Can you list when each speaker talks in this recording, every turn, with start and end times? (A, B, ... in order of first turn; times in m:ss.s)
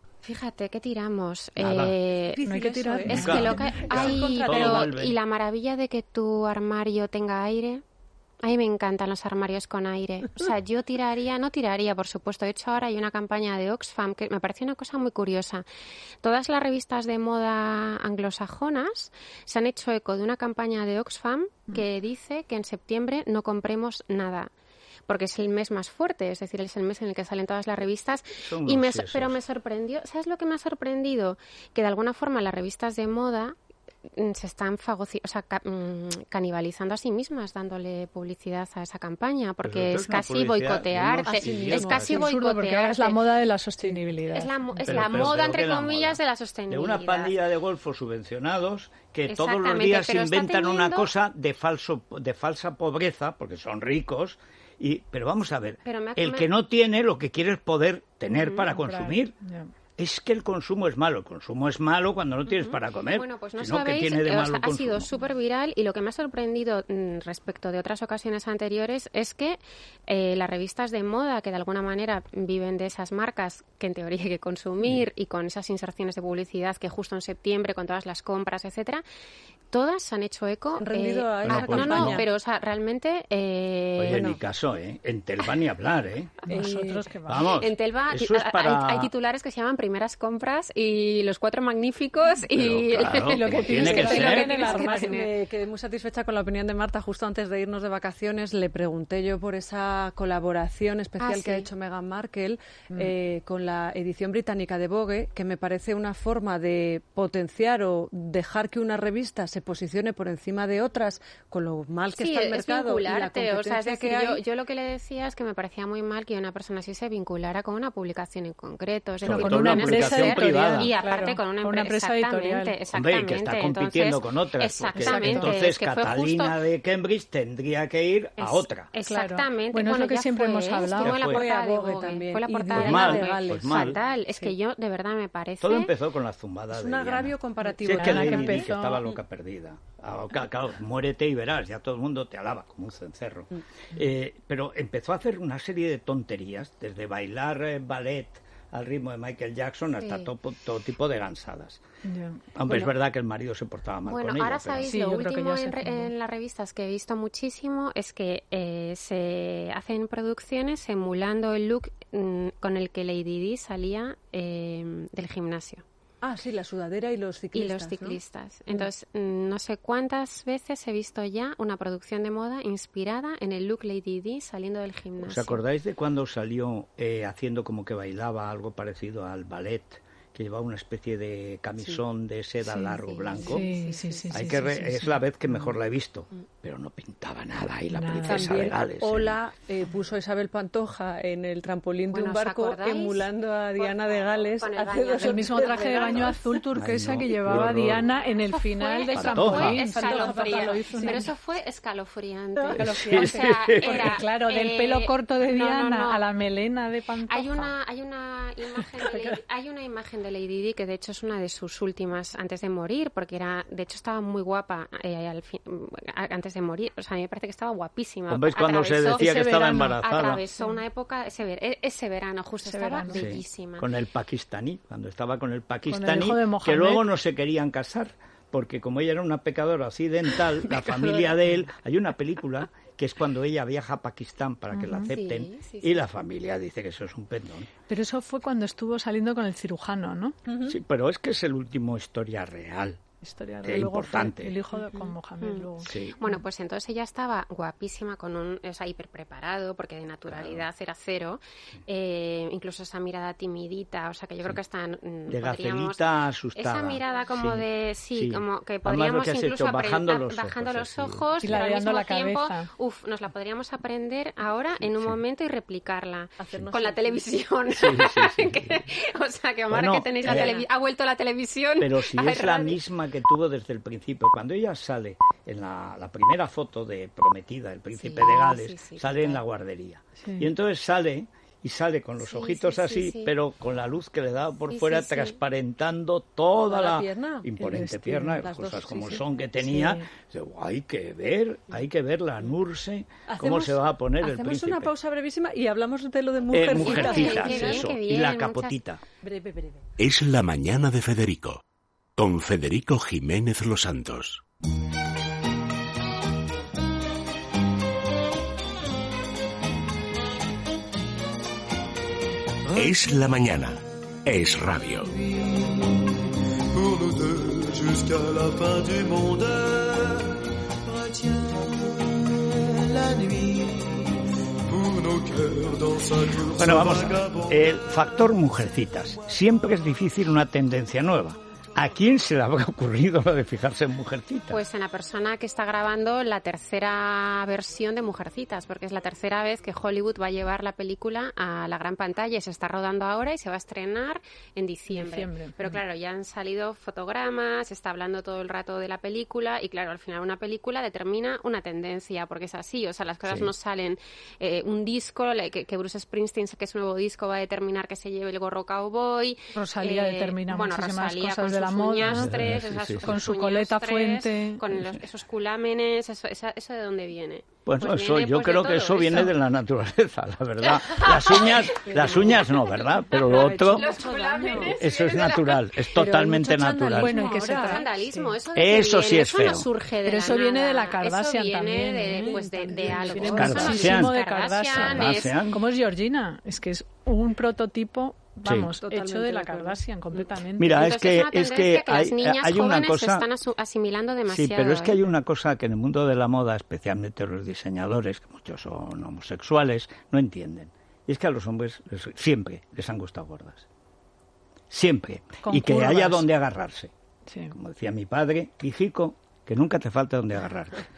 0:00.2-0:02.4 A
0:01.6-0:02.0 B
0:02.3-0:04.9 C
0:02.4-0:03.8 D
0:03.1-0:07.8 A
0:03.1-0:05.2 B
0:08.4-0:15.6 A
0:16.2-0:24.5 A
0:25.1-0:33.6 A
0:28.4-0:29.4 B
0:34.1-0:43.2 A
0:39.6-0:42.1 B
0:41.2-0:42.3 C
0:41.7-0:45.2 D
0:44.3-0:47.4 A
0:44.9-0:46.2 B
0:46.7-0:59.4 B
0:49.3-0:51.1 A
0:55.9-0:56.5 A
0:58.3-0:58.6 A
0:58.6-0:59.7 D
1:00.0-1:05.1 B
1:02.5-1:19.0 A
1:19.7-1:24.3 A
1:20.8-1:22.2 C
1:21.4-1:22.2 B
1:24.0-1:26.6 B
1:24.1-1:24.4 C
1:26.5-1:27.5 D
1:26.5-1:27.0 C
1:27.3-1:29.1 B
1:27.4-1:35.3 A
1:32.5-1:34.5 B
1:33.1-1:35.3 D
1:33.7-1:54.4 C
1:41.2-1:41.7 A
1:52.1-2:06.6 A
1:59.2-2:00.9 B
1:59.2-2:02.8 D
2:02.9-2:08.9 B
2:05.0-2:05.5 D
2:08.4-2:16.0 A
2:09.1-2:11.2 D
2:10.9-2:11.5 B
2:11.1-2:14.0 C
2:12.7-2:14.0 B
2:15.6-2:31.8 B
2:16.7-2:19.2 C
2:17.8-2:19.0 D
2:30.0-2:30.3 A
2:32.0-2:32.4 D
2:32.5-2:35.0 B
2:34.1-2:45.8 A
2:34.9-2:36.1 D
2:46.2-2:48.2 C
2:47.5-2:55.6 A
2:55.2-3:03.7 B
3:03.0-3:04.3 A
3:03.4-3:05.8 D
3:03.4-3:03.8 C
3:04.3-3:09.4 B
3:07.9-3:08.6 D
3:08.2-3:16.4 C
3:12.1-3:13.3 A
3:13.8-3:16.5 A
3:15.2-3:21.3 D
3:16.7-3:18.1 B
3:18.6-3:26.3 A
3:19.1-3:19.8 B
3:19.5-3:21.2 C
3:22.6-3:27.7 D
3:22.7-3:24.2 B
3:27.3-3:43.9 A
3:38.3-3:40.4 B
3:39.2-3:40.8 D
3:42.6-3:43.3 D
3:43.1-3:57.7 B
3:45.9-3:47.1 D
3:54.7-3:55.1 D
3:55.1-3:56.0 A
3:57.9-4:00.4 D
4:00.5-4:00.8 C
4:00.6-4:03.0 B
4:03.2-4:06.4 D
4:03.6-4:04.6 B
4:04.9-4:32.8 A
4:05.8-4:06.2 B
4:10.3-4:10.6 B
4:15.3-4:21.7 B
4:21.4-4:22.7 D
4:24.8-4:25.2 B
4:26.4-4:27.2 C
4:27.7-4:28.8 B
4:29.7-4:30.6 B
4:31.8-4:54.9 B
4:37.9-4:39.4 A
4:40.2-4:40.5 D
4:42.2-4:43.3 A
4:44.7-4:45.4 A
4:46.7-4:47.5 C
4:47.6-4:48.4 D
4:48.3-4:49.2 C
4:49.6-4:50.1 D
4:53.3-4:57.9 C
4:56.5-4:59.0 B
4:56.7-4:58.8 A
4:59.2-4:59.8 C
5:00.0-5:01.6 E
5:02.2-5:04.4 E
5:12.7-5:13.0 F
5:12.8-5:15.1 E
5:15.0-5:28.3 F
5:26.6-5:34.6 B
5:34.5-6:09.4 A
5:44.9-5:45.6 D
5:53.3-5:53.5 B
5:59.5-6:02.4 D
6:02.0-6:03.1 B
6:03.0-6:04.8 D
6:07.7-6:13.9 B
6:10.6-6:15.8 A
6:11.9-6:12.3 C
6:13.1-6:14.8 C
6:14.7-6:17.2 B
6:15.9-6:17.8 C
6:17.0-6:18.4 D
6:17.5-6:25.4 A
6:18.5-6:19.7 B
6:20.0-6:30.8 D
6:22.1-6:23.6 C
6:23.4-6:24.2 B
6:24.8-6:25.6 B
6:28.4-6:28.7 B
6:28.8-6:29.8 C
6:30.6-6:33.3 B
6:30.7-6:35.0 A
6:34.3-6:43.7 B
6:44.7-6:46.9 B
6:45.4-6:46.3 D
6:47.3-6:47.6 D
6:47.5-6:50.8 B